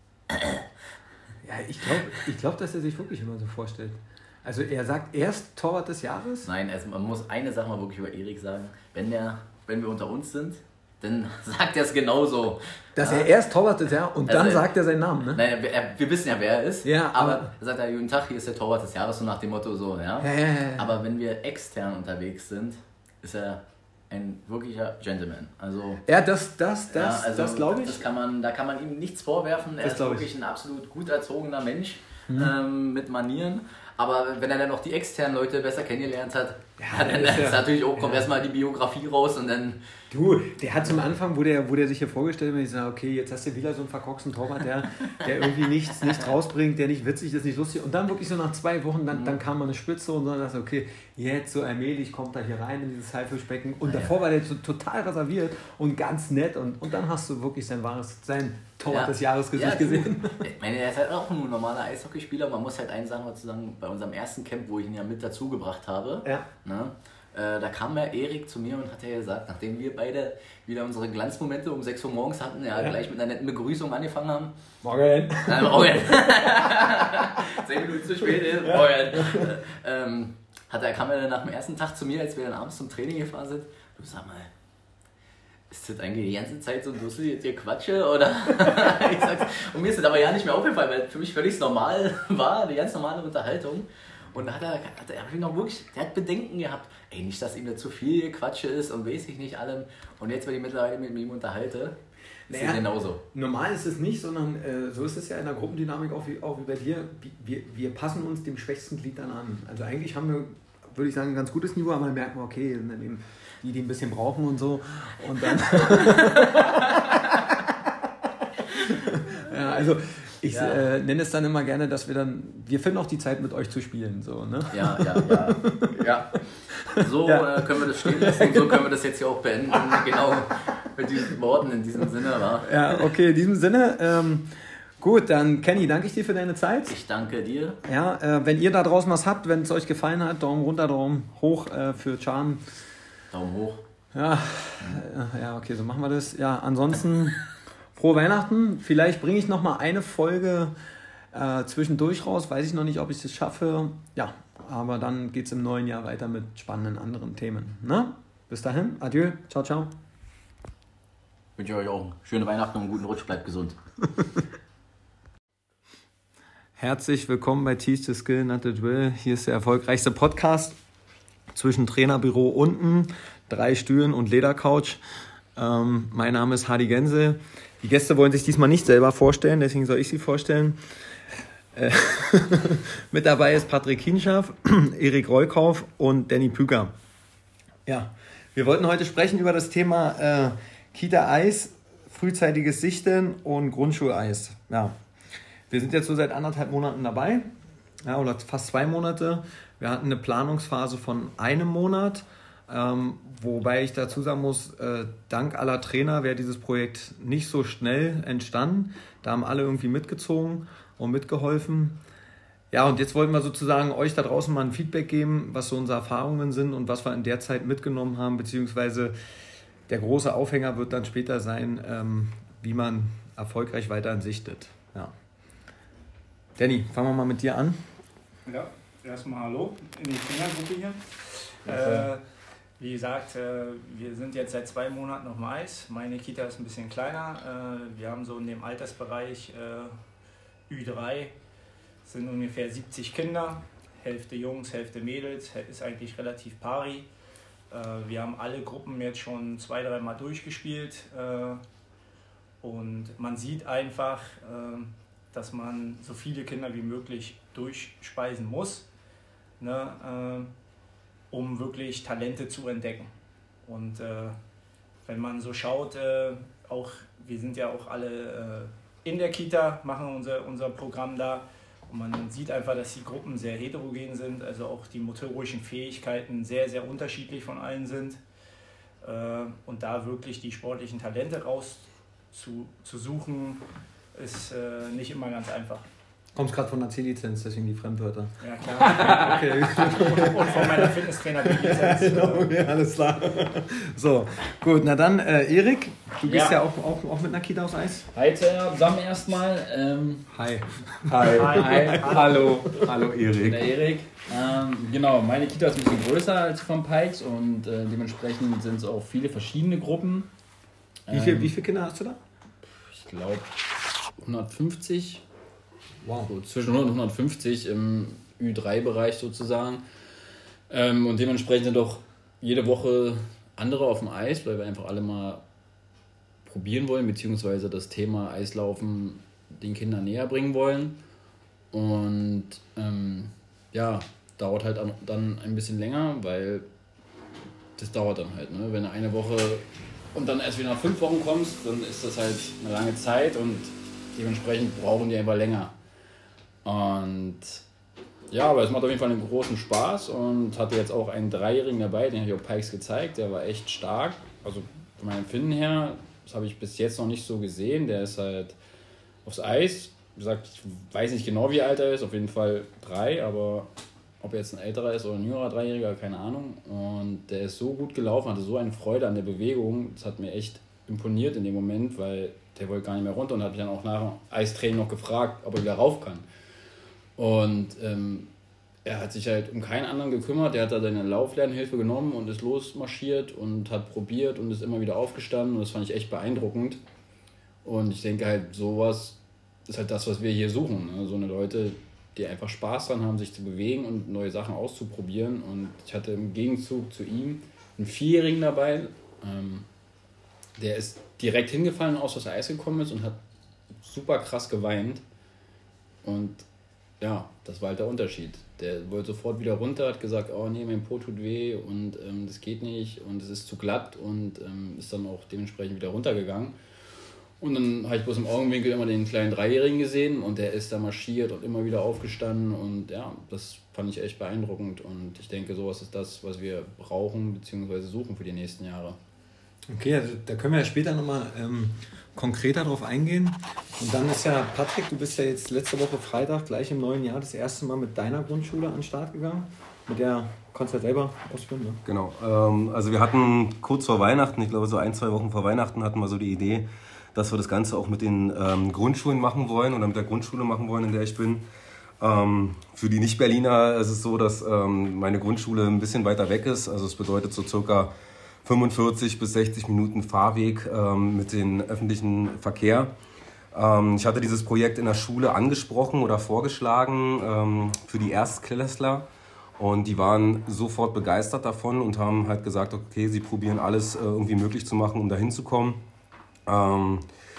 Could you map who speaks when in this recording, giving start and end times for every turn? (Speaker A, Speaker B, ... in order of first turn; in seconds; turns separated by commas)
Speaker A: 0.3-0.7, Speaker B: 1.4-6.5, Speaker A: 6.4-13.3, Speaker B: 12.9-15.4, Speaker A: 14.2-26.0, Speaker B: 16.8-17.5, Speaker B: 20.2-20.9, Speaker B: 26.1-28.0, Speaker A: 26.9-39.8, Speaker B: 29.8-30.2, Speaker B: 36.8-38.2, Speaker B: 40.1-60.4, Speaker A: 49.1-49.4, Speaker A: 53.8-54.1, Speaker A: 58.9-74.5, Speaker B: 74.8-76.0, Speaker A: 75.4-84.5, Speaker B: 78.6-79.4, Speaker A: 85.7-103.2, Speaker B: 102.5-117.9, Speaker A: 116.0-116.3, Speaker B: 118.8-128.8, Speaker A: 120.5-120.8, Speaker A: 124.7-126.4, Speaker A: 127.0-133.0, Speaker B: 129.8-130.2, Speaker B: 132.6-137.0, Speaker A: 136.9-137.8, Speaker B: 137.8-142.6, Speaker A: 143.3-143.8, Speaker B: 144.1-147.4, Speaker B: 147.9-150.7, Speaker B: 151.3-159.9, Speaker A: 161.6-163.8, Speaker B: 166.8-170.8, Speaker B: 171.5-175.0, Speaker B: 175.6-180.8, Speaker B: 181.7-186.9, Speaker B: 187.9-194.9, Speaker B: 195.7-197.5, Speaker B: 198.0-212.0, Speaker B: 212.7-219.1, Speaker B: 219.9-225.1, Speaker B: 226.6-227.8, Speaker C: 228.4-231.0, Speaker C: 231.7-232.2, Speaker B: 231.7-232.1, Speaker C: 232.8-239.9, Speaker C: 240.7-241.3, Speaker C: 242.0-247.1, Speaker C: 247.7-251.6, Speaker C: 252.6-258.9, Speaker C: 259.6-260.5, Speaker C: 261.3-263.1, Speaker C: 263.6-264.4, Speaker C: 265.0-278.2, Speaker C: 279.0-283.6, Speaker C: 284.1-285.8, Speaker B: 286.3-298.1, Speaker C: 288.4-292.5, Speaker D: 296.3-296.6, Speaker D: 298.1-300.3, Speaker B: 300.3-302.6, Speaker D: 301.1-310.3, Speaker E: 301.1-303.6, Speaker C: 301.3-302.1, Speaker D: 311.1-311.5, Speaker B: 311.1-312.2, Speaker D: 312.9-313.5, Speaker D: 314.2-315.2, Speaker B: 316.0-316.3, Speaker D: 316.1-319.8, Speaker D: 320.7-325.4, Speaker D: 326.4-331.0, Speaker D: 331.7-336.6, Speaker D: 337.8-339.6, Speaker D: 340.1-345.7, Speaker D: 346.6-347.6, Speaker D: 348.3-358.6, Speaker D: 359.2-363.7, Speaker D: 364.2-376.2, Speaker D: 377.2-378.3, Speaker D: 378.8-386.8, Speaker D: 387.6-399.7, Speaker D: 400.6-403.2, Speaker D: 403.8-405.0, Speaker D: 406.0-406.4, Speaker D: 407.0-416.6, Speaker D: 417.4-429.0, Speaker B: 429.7-441.8, Speaker E: 441.9-451.4, Speaker E: 452.0-457.9, Speaker E: 458.4-462.9, Speaker E: 463.5-469.1, Speaker E: 469.6-475.8, Speaker E: 476.5-477.1